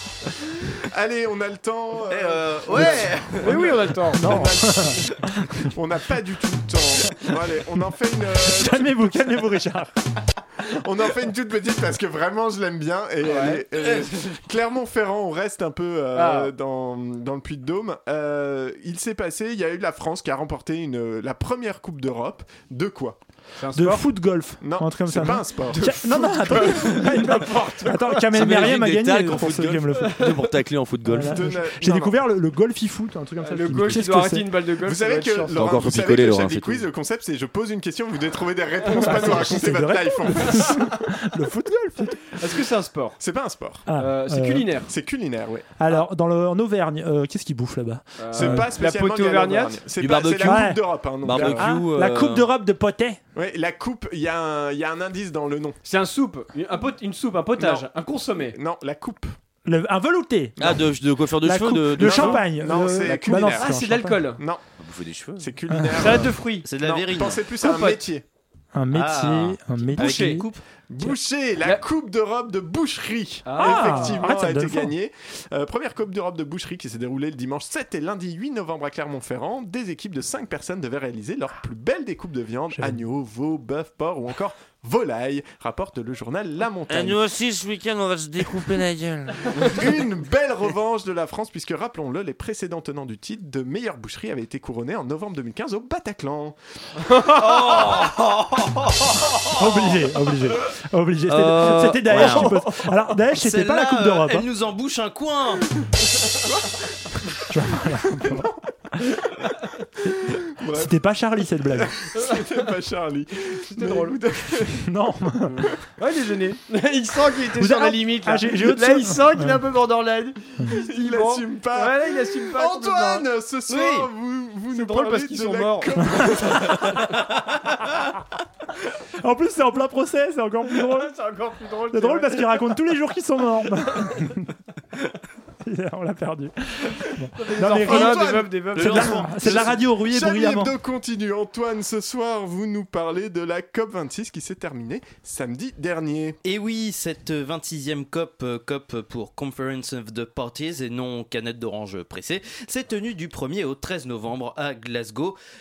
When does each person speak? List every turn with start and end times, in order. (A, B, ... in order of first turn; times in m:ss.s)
0:00.8-0:09.1 A
0:02.1-0:03.8 B
0:03.4-0:04.5 C
0:04.2-0:05.6 D
0:08.3-0:09.9 D
0:10.6-0:23.2 A
0:13.2-0:13.6 C
0:16.1-0:16.5 C
0:23.6-0:24.1 C
0:23.7-0:30.5 D
0:24.6-0:28.2 A
0:28.3-0:31.4 E
0:31.0-0:34.5 D
0:31.2-0:32.2 A
0:33.4-0:35.6 C
0:34.8-0:40.9 A
0:35.6-0:36.9 E
0:38.9-0:39.5 C
0:38.9-0:42.4 D
0:42.4-0:43.2 C
0:43.2-0:43.9 A
0:43.9-0:44.8 D
0:44.0-0:44.9 C
0:44.9-0:45.7 A
0:45.8-0:48.7 D
0:48.2-0:49.8 C
0:48.3-0:51.7 A
0:50.0-0:52.4 E
0:50.4-0:53.2 D
0:53.4-0:55.8 A
0:55.8-0:58.6 C
0:57.6-0:57.9 A
0:58.5-0:59.4 A
0:59.6-1:00.8 D
1:00.6-1:02.4 E
1:01.4-1:04.3 D
1:02.0-1:03.8 A
1:03.0-1:04.4 C
1:04.4-1:04.6 A
1:04.8-1:05.5 E
1:05.4-1:08.2 A
1:05.7-1:06.2 D
1:06.0-1:06.7 C
1:06.6-1:07.5 B
1:07.6-1:08.0 C
1:08.7-1:10.4 D
1:08.9-1:10.6 B
1:10.0-1:10.4 C
1:10.9-1:27.2 A
1:13.5-1:14.3 C
1:13.6-1:14.9 D
1:22.7-1:23.0 D
1:26.9-1:29.5 E
1:29.6-1:36.6 A
1:37.2-1:39.6 B
1:39.6-1:44.5 D
1:41.3-1:42.6 E
1:42.1-1:42.5 B
1:43.3-1:45.7 B
1:46.4-1:46.7 A
1:47.5-1:48.5 D
1:50.5-1:51.0 A
1:50.7-1:51.9 D
1:51.8-1:54.9 A
1:53.7-1:54.2 C
1:54.8-1:55.5 D
1:55.5-1:55.8 A
1:56.0-2:03.3 C
1:57.6-1:59.6 D
2:00.7-2:07.1 A
2:03.7-2:04.1 B
2:04.7-2:06.0 C
2:09.2-2:11.2 D
2:10.9-2:12.7 C
2:11.9-2:14.5 D
2:15.6-2:20.7 D
2:17.4-2:19.6 C
2:17.8-2:26.4 A
2:26.4-2:35.4 B